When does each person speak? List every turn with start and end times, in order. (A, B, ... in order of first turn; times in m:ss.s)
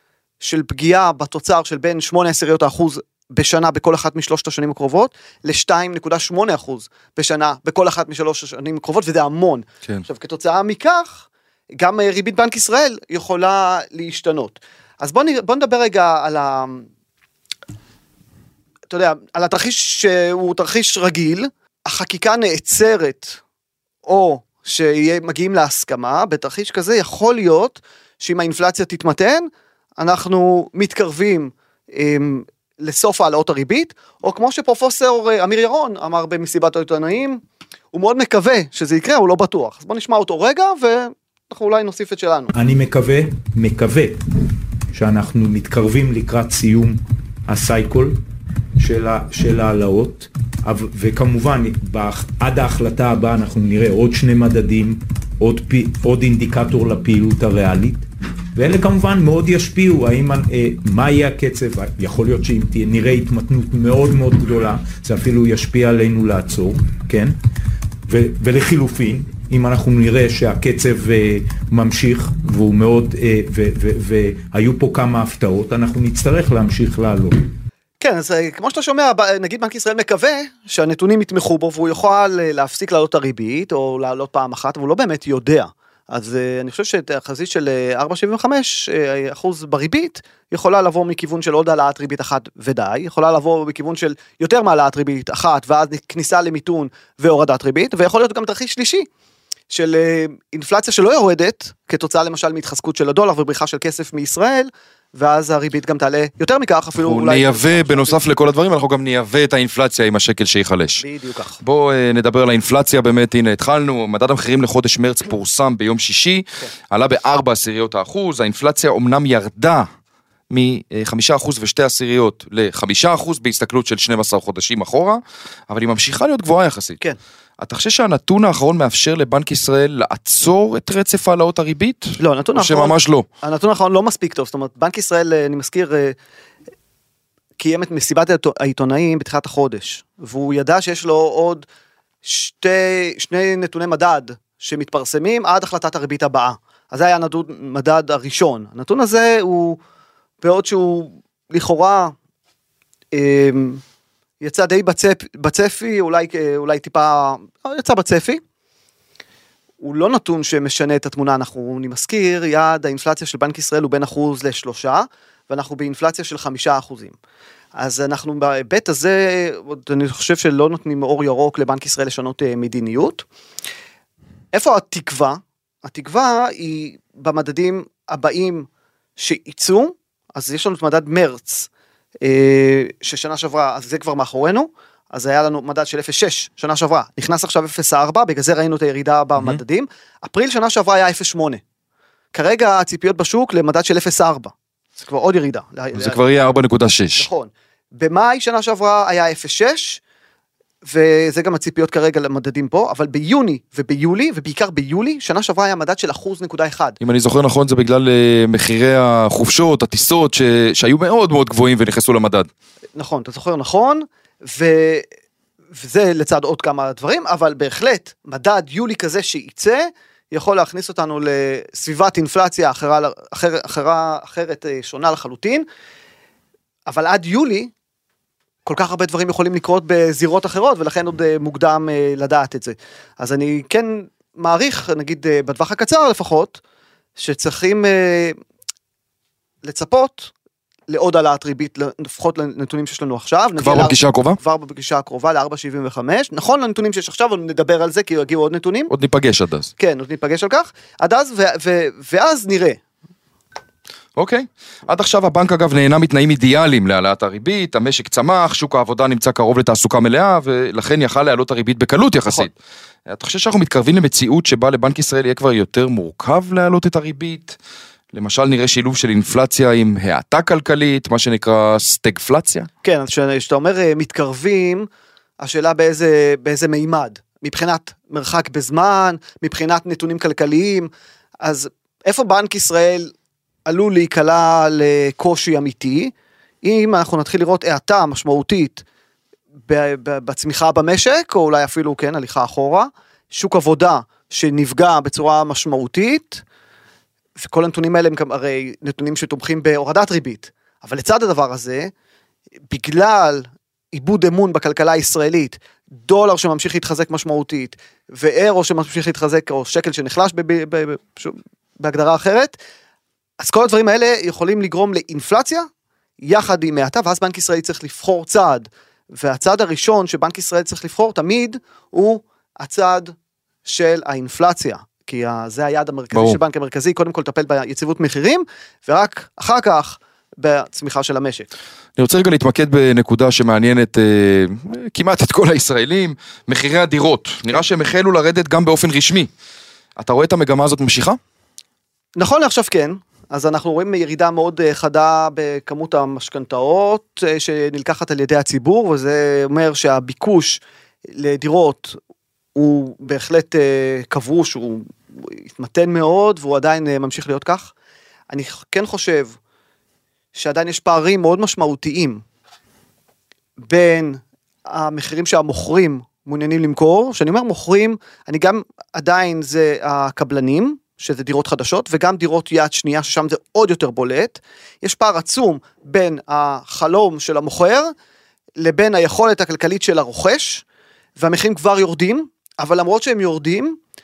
0:00.4-0:11.2 A
0:11.8-0:16.9 A
0:18.9-0:23.4 A
0:24.0-0:42.5 A
0:42.5-0:48.2 B
0:48.8-1:07.4 B
1:08.1-1:17.4 B
1:18.0-1:39.1 A
1:39.7-1:48.2 A
1:47.0-1:51.0 C
1:51.0-1:51.6 A
1:51.6-1:59.9 C
2:00.5-2:07.0 C
2:07.6-2:13.3 C
2:12.2-2:16.2 A
2:17.6-2:21.6 A
2:22.2-2:29.8 A
2:30.4-2:32.2 A
2:33.1-2:33.8 A
2:34.4-2:38.4 A
2:39.8-2:47.2 A
2:47.8-2:53.3 A
2:54.5-2:58.7 A
2:59.2-3:01.7 A
3:02.2-3:11.6 A
3:12.3-3:16.2 A
3:15.9-3:17.3 C
3:17.2-3:20.0 A
3:20.9-3:27.0 A
3:27.0-3:32.5 C
3:33.0-3:35.1 A
3:35.8-3:45.7 A
3:46.9-3:47.7 A
3:48.6-3:56.6 A
3:57.2-3:58.4 A
3:59.6-4:00.3 A
4:00.9-4:08.9 A
4:03.6-4:04.4 C
4:08.9-4:09.7 C
4:09.8-4:12.8 A
4:14.2-4:22.5 C
4:23.1-4:27.6 C
4:28.1-4:32.7 C
4:32.8-4:34.9 A
4:35.4-4:40.9 A
4:41.4-4:43.1 A
4:43.7-4:48.8 A
4:49.7-4:56.4 A
4:57.4-5:01.9 A
5:02.7-5:12.6 A
5:13.4-5:15.7 A
5:16.2-5:31.5 A
5:26.1-5:26.4 C
5:32.0-5:39.3 C
5:40.0-5:41.2 C
5:42.2-5:52.0 A
5:52.6-5:57.7 A
5:58.3-5:59.4 A
6:00.3-6:02.2 A
6:03.7-6:17.9 A
6:18.6-6:20.6 A
6:21.2-6:23.8 A